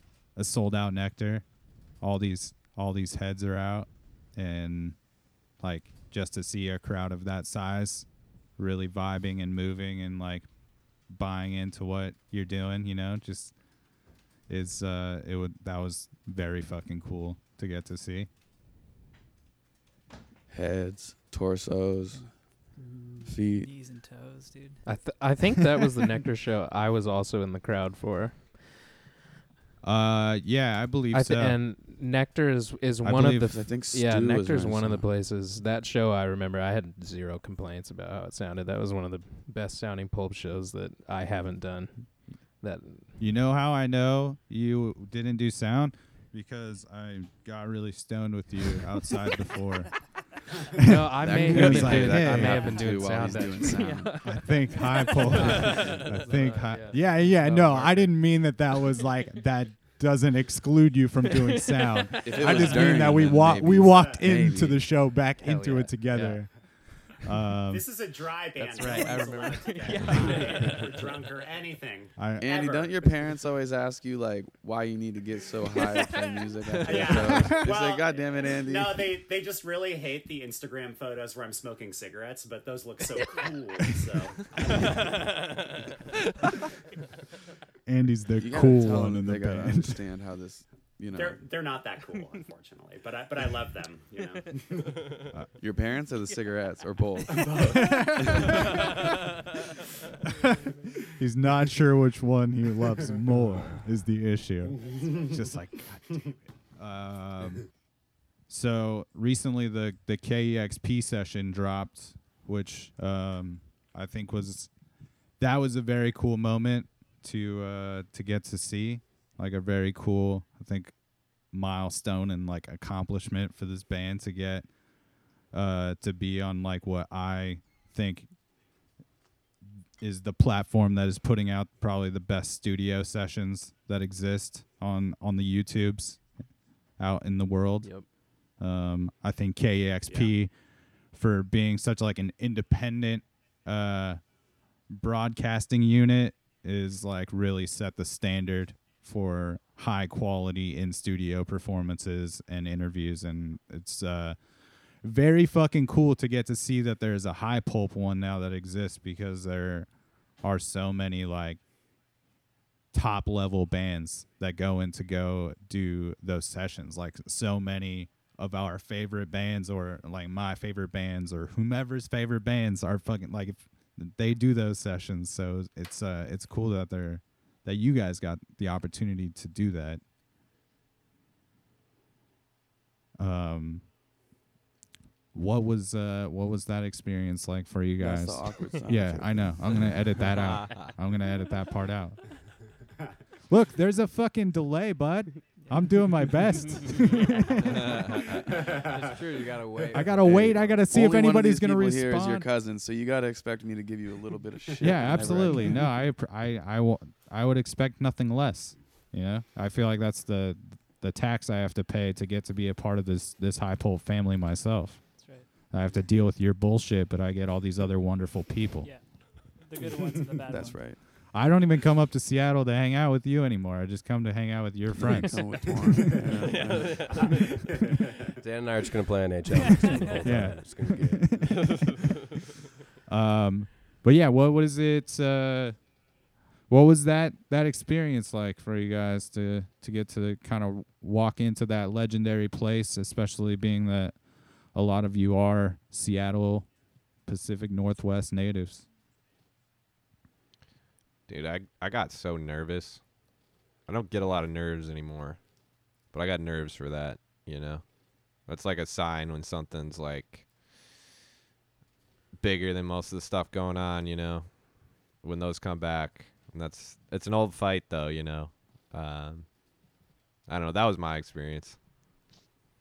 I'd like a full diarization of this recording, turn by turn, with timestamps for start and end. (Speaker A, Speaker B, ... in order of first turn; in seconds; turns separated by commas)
Speaker A: 0.3-10.5, Speaker A: 11.0-13.6, Speaker A: 14.5-18.3, Speaker B: 20.5-22.3, Speaker C: 22.8-24.8, Speaker B: 23.2-23.7, Speaker D: 24.8-28.8, Speaker A: 29.8-31.6, Speaker D: 31.1-43.2, Speaker A: 33.0-33.5, Speaker B: 33.5-35.1, Speaker A: 43.2-50.1, Speaker D: 50.8-57.4, Speaker B: 51.2-54.4, Speaker A: 51.4-52.6, Speaker A: 54.2-67.9, Speaker B: 57.2-58.1, Speaker D: 61.5-63.0, Speaker B: 62.2-64.8, Speaker E: 63.9-64.2, Speaker D: 65.2-66.5, Speaker E: 67.7-73.1, Speaker D: 68.6-71.3, Speaker A: 72.2-72.5, Speaker B: 72.4-79.1, Speaker D: 76.8-77.5, Speaker E: 76.8-85.2, Speaker D: 83.2-83.5, Speaker A: 87.9-90.0, Speaker B: 88.4-91.4, Speaker E: 91.1-94.9, Speaker B: 95.6-98.6, Speaker E: 97.3-97.8, Speaker A: 97.9-98.4, Speaker A: 101.2-107.8, Speaker E: 104.9-105.3, Speaker A: 108.5-114.7, Speaker A: 115.4-124.7, Speaker A: 125.5-128.3, Speaker A: 130.0-136.3, Speaker A: 137.0-140.5, Speaker E: 140.1-140.3, Speaker A: 141.1-144.2, Speaker A: 144.9-154.4, Speaker A: 155.0-161.6, Speaker A: 162.9-180.0, Speaker A: 183.2-183.9, Speaker A: 185.3-192.3, Speaker B: 188.0-189.8, Speaker F: 190.4-190.9, Speaker A: 193.5-197.8, Speaker C: 195.6-196.1, Speaker G: 198.2-200.9, Speaker E: 198.5-199.0, Speaker A: 199.9-202.5, Speaker B: 200.4-205.8, Speaker A: 204.8-219.1, Speaker C: 215.1-215.5, Speaker C: 218.8-221.0, Speaker E: 219.8-220.2, Speaker B: 220.5-221.0, Speaker A: 221.3-225.8, Speaker G: 225.0-225.5, Speaker B: 225.1-227.2, Speaker G: 226.4-227.8, Speaker E: 227.3-228.0, Speaker G: 228.4-232.2, Speaker C: 229.5-230.9, Speaker A: 230.2-231.7, Speaker A: 233.1-235.9, Speaker A: 236.7-246.7, Speaker A: 247.2-248.9, Speaker F: 251.3-253.1, Speaker F: 253.8-260.5, Speaker F: 262.3-269.6, Speaker F: 270.5-271.8